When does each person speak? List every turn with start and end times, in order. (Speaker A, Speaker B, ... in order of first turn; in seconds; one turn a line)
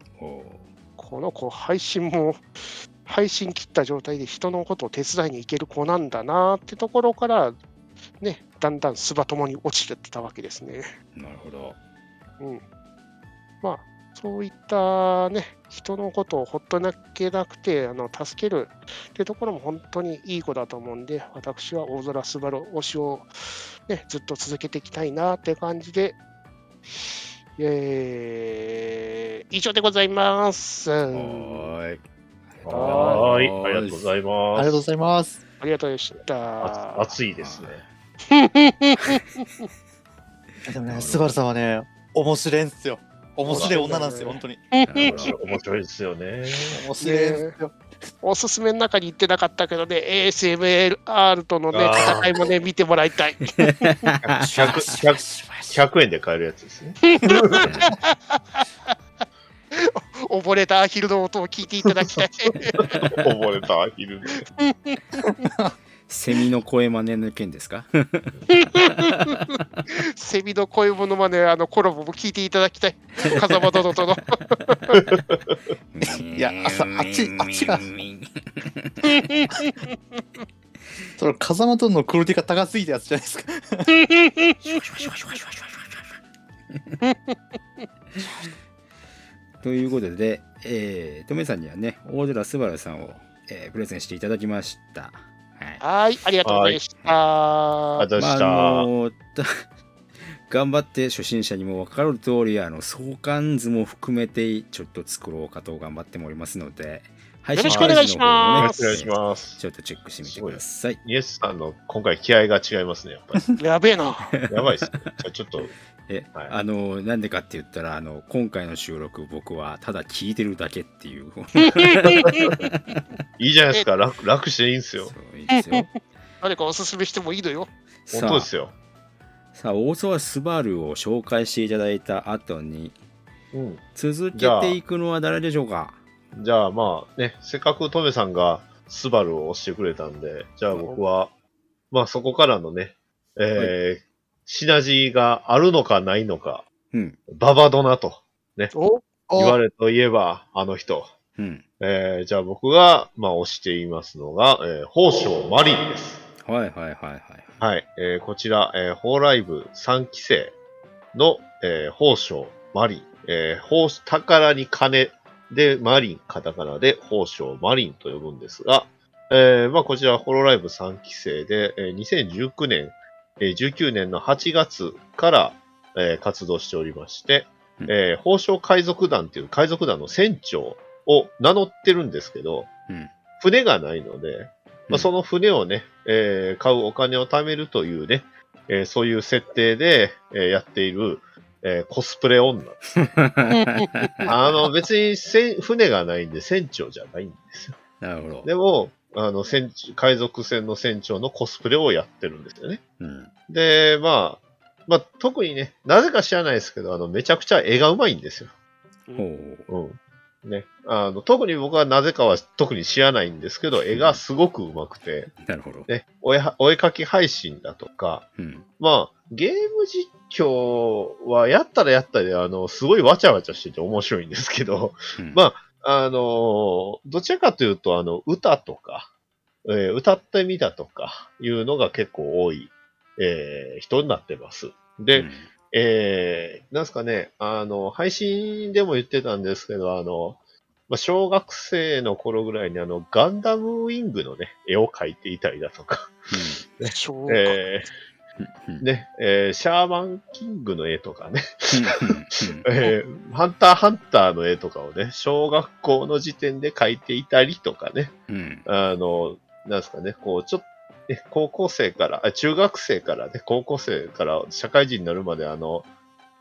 Speaker A: 0.2-0.7
Speaker B: 1.0-7.6
Speaker B: 8.2-10.9
Speaker A: 11.2-11.8
Speaker B: 13.6-23.3
Speaker B: 23.9-26.2
Speaker B: 26.9-31.7
Speaker A: 31.1-34.1
Speaker C: 32.6-34.8
Speaker B: 32.7-33.3
Speaker D: 34.5-35.4
Speaker B: 35.6-37.1
Speaker C: 36.6-37.8
Speaker A: 37.4-37.9
Speaker B: 38.3-39.6
Speaker D: 40.7-44.6
Speaker A: 40.9-41.4
Speaker B: 43.5-45.1
Speaker C: 43.5-43.8
Speaker A: 44.9-45.4
Speaker C: 45.1-46.8
Speaker D: 46.7-47.8
Speaker B: 47.0-47.6
Speaker B: 48.2-54.1
Speaker C: 51.7-52.5
Speaker A: 53.6-54.4
Speaker C: 54.2-57.7
Speaker D: 54.4-55.8
Speaker B: 57.2-58.9
Speaker A: 57.6-57.9
Speaker B: 59.7-62.8
Speaker C: 62.0-62.2
Speaker C: 62.8-64.5
Speaker A: 62.8-63.1
Speaker B: 64.6-65.4
Speaker D: 65.4-65.7
Speaker A: 66.1-69.8
Speaker B: 68.5-69.3
Speaker B: 69.9-74.8
Speaker A: 75.9-79.3
Speaker D: 76.1-77.9
Speaker B: 79.1-80.2
Speaker D: 81.2-83.9
Speaker B: 84.2-84.5
Speaker A: 84.6-86.2
Speaker A: 86.7-87.0
Speaker B: 87.0-87.9
Speaker A: 89.6-95.8
Speaker B: 95.8-98.1
Speaker C: 96.5-96.8
Speaker C: 98.0-98.9
Speaker A: 98.2-99.6
Speaker A: 100.5-111.0
Speaker B: 107.5-109.0
Speaker C: 107.7-109.6
Speaker C: 110.2-113.6
Speaker B: 113.6-114.3
Speaker A: 114.4-115.2
Speaker C: 114.5-115.7
Speaker A: 116.0-123.0
Speaker C: 123.4-125.1
Speaker A: 125.0-126.0
Speaker B: 125.5-127.7
Speaker A: 128.1-128.5
Speaker C: 128.1-128.7
Speaker A: 129.5-133.0
Speaker C: 133.5-134.8
Speaker A: 133.9-136.0
Speaker C: 136.3-141.3
Speaker C: 141.9-146.7
Speaker A: 146.9-147.2
Speaker C: 147.3-148.7
Speaker B: 148.7-149.1
Speaker D: 149.3-149.6
Speaker C: 149.4-151.2
Speaker A: 151.4-151.7
Speaker C: 151.8-156.2
Speaker A: 156.4-157.6
Speaker C: 157.6-160.6
Speaker C: 161.1-182.7
Speaker C: 183.4-193.0
Speaker A: 193.0-194.5
Speaker B: 193.6-194.3
Speaker C: 194.3-197.8
Speaker A: 198.0-198.5
Speaker C: 198.4-202.8
Speaker A: 203.0-203.3
Speaker C: 203.5-208.5
Speaker A: 209.2-209.7
Speaker C: 209.7-215.3
Speaker A: 213.8-214.2
Speaker A: 215.4-215.9
Speaker C: 215.9-229.1
Speaker A: 218.4-218.7
Speaker C: 229.7-247.9
Speaker A: 235.1-235.5
Speaker A: 246.3-246.6
Speaker B: 246.8-247.7
Speaker A: 248.4-248.9
Speaker C: 248.8-252.0
Speaker A: 251.7-252.7
Speaker C: 252.6-265.9
Speaker A: 258.3-258.7